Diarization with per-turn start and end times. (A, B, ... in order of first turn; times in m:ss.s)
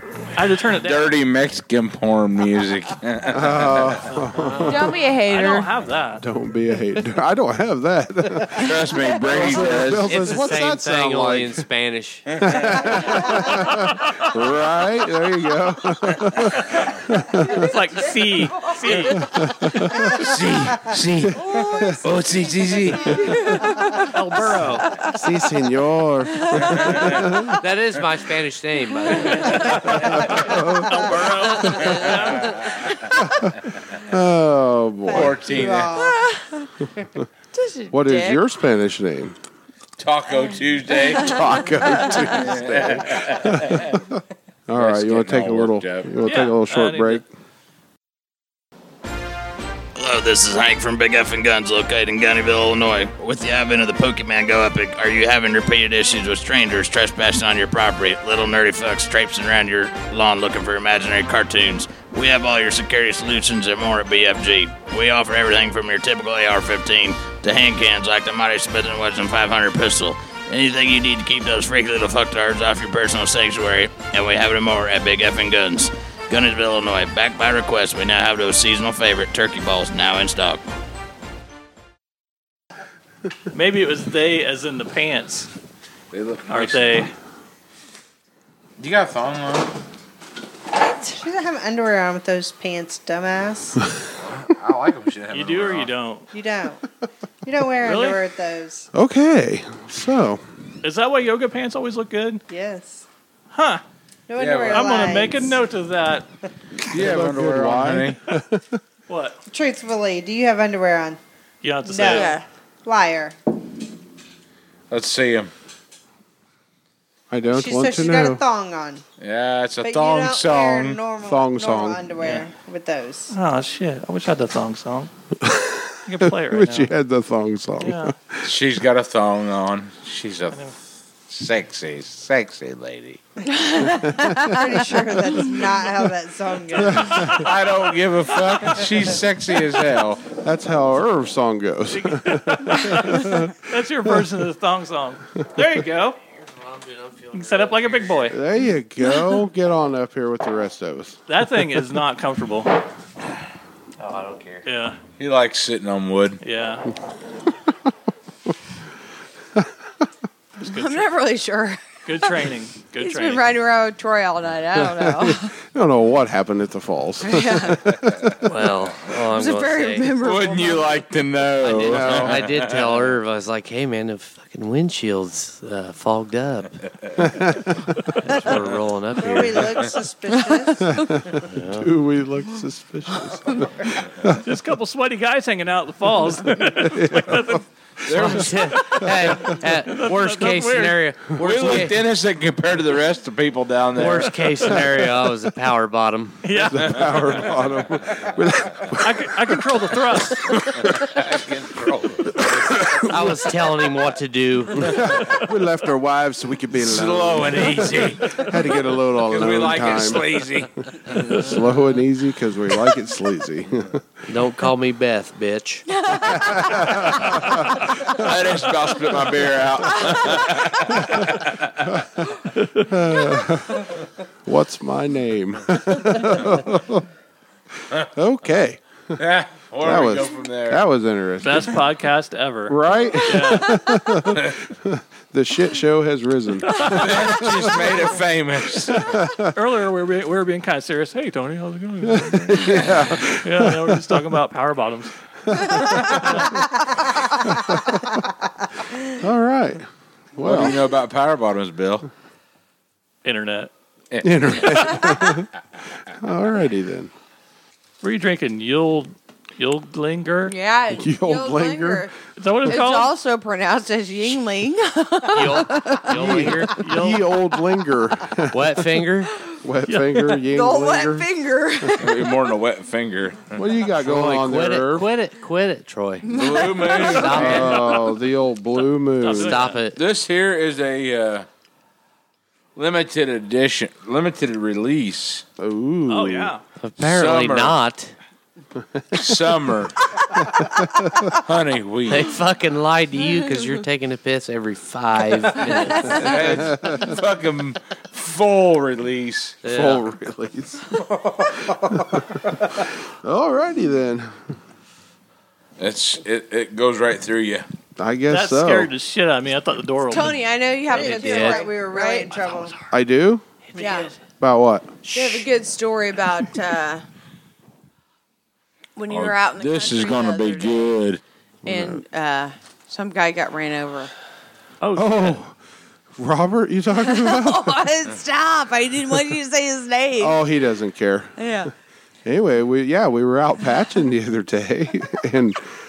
0:00.4-0:01.1 A
0:00.8-0:04.2 B
0:03.3-0:04.9 C
0:04.6-0:05.7 D
0:05.3-0:06.2 A
0:06.2-0:11.6 C
0:08.6-0:09.3 D
0:08.6-0:10.2 B
0:10.0-0:12.6 E
0:12.4-0:17.7 C
0:17.6-0:19.3 A
0:19.2-0:20.1 C
0:20.2-0:21.4 B
0:21.3-0:22.0 C
0:21.4-0:22.0 D
0:22.0-0:23.2 B
0:23.0-0:25.3 D
0:24.1-0:24.9 A
0:25.1-0:27.6 C
0:26.4-0:27.6 D
0:27.6-0:29.8 E
0:29.2-0:32.6 A
0:30.3-0:31.1 C
0:31.9-0:32.8 B
0:34.0-0:35.4 C
0:35.1-0:36.2 F
0:35.1-0:35.9 B
0:35.9-0:36.7 D
0:37.5-0:38.4 D
0:37.9-0:39.4 C
0:40.0-0:41.4 B
0:40.4-0:42.5 D
0:41.2-0:44.1 C
0:42.5-0:44.0 B
0:44.7-0:47.3 C
0:44.7-0:46.2 B
0:46.2-0:47.2 A
0:50.0-1:20.6 G
1:23.5-1:25.5 A
1:26.1-1:27.1 B
1:26.5-1:27.1 A
1:28.8-1:29.7 B
1:30.9-1:33.8 F
1:34.2-1:35.9 B
1:35.3-1:36.3 A
1:36.3-1:36.8 F
1:37.4-1:38.9 F
1:37.8-1:38.2 A
1:38.9-1:40.4 C
1:40.8-1:42.4 A
1:42.5-1:43.0 F
1:43.5-1:43.8 A
1:44.3-1:45.6 F
1:44.4-1:44.9 B
1:44.6-1:46.3 A
1:46.9-1:48.8 C
1:46.9-1:48.2 B
1:49.1-1:49.4 A
1:49.5-1:51.2 F
1:51.6-1:52.4 A
1:51.9-1:53.4 F
1:52.1-1:52.4 D
1:54.9-1:55.5 B
1:57.3-1:58.4 C
1:57.5-1:59.0 F
1:59.2-2:01.0 B
1:59.8-2:03.3 F
2:01.2-2:02.1 C
2:03.3-2:05.1 A
2:05.4-2:08.5 C
2:06.1-2:06.9 A
2:07.8-2:08.1 A
2:08.4-2:10.6 B
2:11.3-2:13.2 B
2:13.5-2:15.7 D
2:14.2-2:14.5 C
2:14.5-2:17.4 F
2:16.9-2:17.5 A
2:17.0-2:17.3 C
2:17.3-2:20.2 B
2:20.4-2:23.5 C
2:21.9-2:26.2 A
2:26.4-2:28.3 E
2:27.3-2:28.4 A
2:28.3-2:31.2 C
2:31.3-2:32.7 A
2:34.0-2:34.6 E
2:34.6-2:35.0 A
2:35.2-2:36.4 B
2:36.4-2:36.9 A
2:40.6-2:41.1 A
2:40.6-2:45.5 D
2:42.1-2:43.4 A
2:44.8-2:48.6 C
2:47.2-2:47.8 D
2:48.5-2:50.2 E
2:49.2-2:51.1 D
2:50.2-2:53.2 B
2:51.6-2:56.8 E
2:51.8-2:52.5 C
2:57.2-2:57.7 C
2:58.2-2:59.7 E
2:59.2-3:00.9 F
3:00.3-3:01.1 D
3:00.8-3:04.4 C
3:01.5-3:02.0 E
3:03.2-3:03.6 D
3:04.4-3:07.6 A
3:06.5-3:08.4 C
3:08.0-3:08.8 B
3:08.1-3:12.0 E
3:08.5-3:11.0 A
3:11.4-3:14.8 B
3:11.4-3:11.9 C
3:13.9-3:16.4 E
3:14.8-3:15.3 C
3:16.4-3:17.0 A
3:16.7-3:19.6 C
3:19.0-3:20.4 A
3:20.8-3:22.9 B
3:22.9-3:25.0 E
3:22.9-3:23.5 C
3:24.8-3:30.4 C
3:25.2-3:25.4 A
3:26.8-3:28.5 B
3:29.3-3:31.4 B
3:31.1-3:34.1 C
3:34.3-3:35.8 E
3:35.9-3:38.1 D
3:37.2-3:37.6 C
3:38.1-3:41.9 B
3:39.8-3:40.7 D
3:42.6-3:42.9 A
3:42.8-3:43.9 C
3:44.4-3:47.1 C
3:48.0-3:49.2 C
3:49.2-3:50.8 B
3:49.8-3:51.8 C
3:51.4-3:53.8 A
3:52.7-3:57.9 C
3:53.7-3:54.2 D
3:56.7-3:57.0 A
3:56.9-3:59.0 B
3:58.9-4:05.1 A
3:59.0-3:59.5 C
4:02.0-4:04.2 C
4:05.5-4:06.5 C
4:05.7-4:06.6 A
4:07.5-4:08.2 C
4:09.2-4:10.8 C
4:10.4-4:12.1 B
4:13.2-4:13.7 A
4:14.1-4:14.8 B
4:14.2-4:15.5 C
4:14.5-4:15.3 A
4:16.2-4:17.1 C
4:18.0-4:20.5 A
4:20.5-4:22.1 D
4:20.9-4:22.1 C
4:22.4-4:23.1 A
4:22.6-4:26.8 D
4:25.3-4:26.8 E
4:26.1-4:28.6 C
4:26.8-4:27.3 A
4:28.5-4:29.3 E
4:29.6-4:31.3 C
4:29.9-4:30.4 A
4:30.4-4:32.5 D
4:32.0-4:33.6 B
4:33.5-4:35.1 C
4:33.9-4:37.9 E
4:36.3-4:37.3 D
4:36.3-4:37.7 B
4:37.3-4:39.7 C
4:37.4-4:38.2 A
4:39.2-4:39.8 A
4:39.3-4:40.0 E
4:39.8-4:41.5 B
4:42.8-4:45.4 B
4:45.6-4:46.5 C
4:46.1-4:46.6 A
4:46.8-4:48.1 E
4:47.0-4:47.8 B
4:49.1-4:50.0 B
4:51.4-4:52.3 B
4:52.1-4:56.7 E
4:53.2-4:53.8 D
4:55.7-4:56.2 D
4:56.1-4:59.6 B
4:59.6-5:00.0 E
4:59.7-5:00.8 C
5:01.9-5:04.5 C
5:05.8-5:07.7 B
5:08.0-5:08.9 C
5:08.3-5:10.4 A
5:10.1-5:12.3 D
5:10.9-5:12.8 F
5:10.9-5:11.3 A
5:11.3-5:11.6 E
5:12.3-5:12.7 A
5:12.9-5:13.4 C
5:13.8-5:14.1 D
5:14.4-5:15.0 C
5:15.1-5:17.0 D
5:19.0-5:20.9 D
5:19.1-5:21.2 B
5:21.6-5:24.1 D
5:21.6-5:22.0 C
5:24.8-5:25.4 A
5:24.9-5:25.6 C
5:26.2-5:27.8 C
5:27.0-5:30.4 D
5:30.2-5:31.4 C
5:31.4-5:31.7 D
5:32.2-5:35.7 C